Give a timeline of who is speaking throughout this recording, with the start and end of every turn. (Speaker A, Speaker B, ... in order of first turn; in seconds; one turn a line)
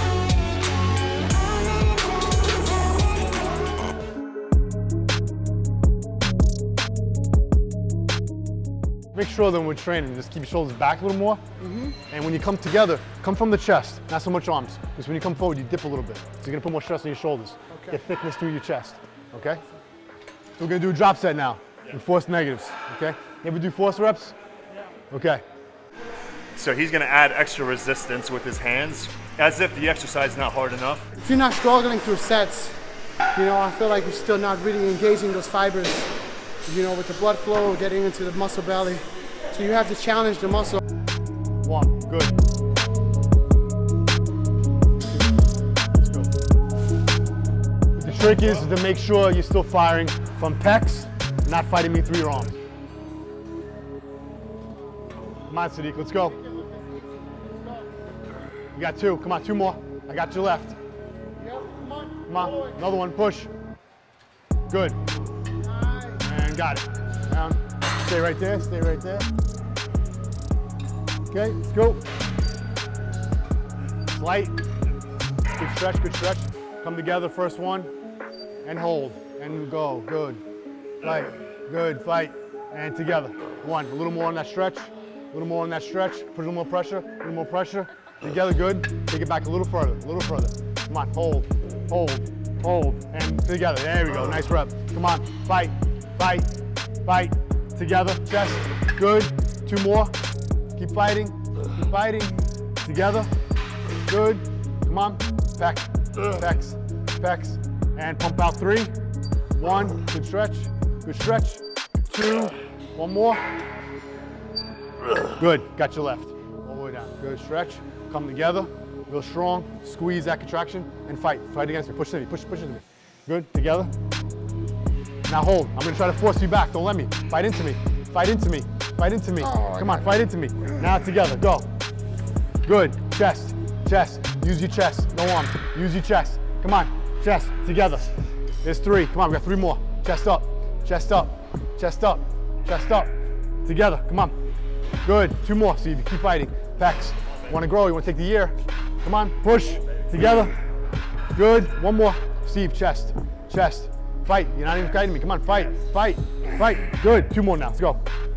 Speaker A: 9.1-11.4
Speaker B: 11.6-12.0
Speaker A: 12.1-19.6
Speaker B: 17.7-18.0
Speaker A: 20.6-24.4
Speaker A: 25.1-25.4
Speaker C: 26.6-31.1
Speaker B: 31.1-32.8
Speaker B: 33.3-36.1
Speaker B: 36.6-40.8
Speaker A: 41.6-42.4
Speaker A: 45.9-46.3
Speaker A: 48.0-52.6
Speaker A: 55.5-56.4
Speaker B: 56.2-57.9
Speaker A: 58.7-60.8
Speaker B: 61.4-62.9
Speaker A: 62.3-63.5
Speaker A: 64.7-65.0
Speaker B: 65.6-66.3
Speaker A: 66.2-69.3
Speaker A: 71.3-72.0
Speaker A: 74.1-74.6
Speaker A: 75.6-77.9
Speaker A: 78.6-80.4
Speaker A: 81.0-96.5
Speaker A: 97.0-100.1
Speaker A: 100.8-103.3
Speaker A: 104.1-109.0
Speaker A: 109.5-113.4
Speaker A: 115.4-123.9
Speaker A: 125.3-131.7
Speaker B: 129.4-130.2
Speaker A: 132.7-138.1
Speaker A: 138.6-143.1
Speaker A: 143.7-144.3
Speaker A: 145.0-150.6
Speaker A: 151.3-158.0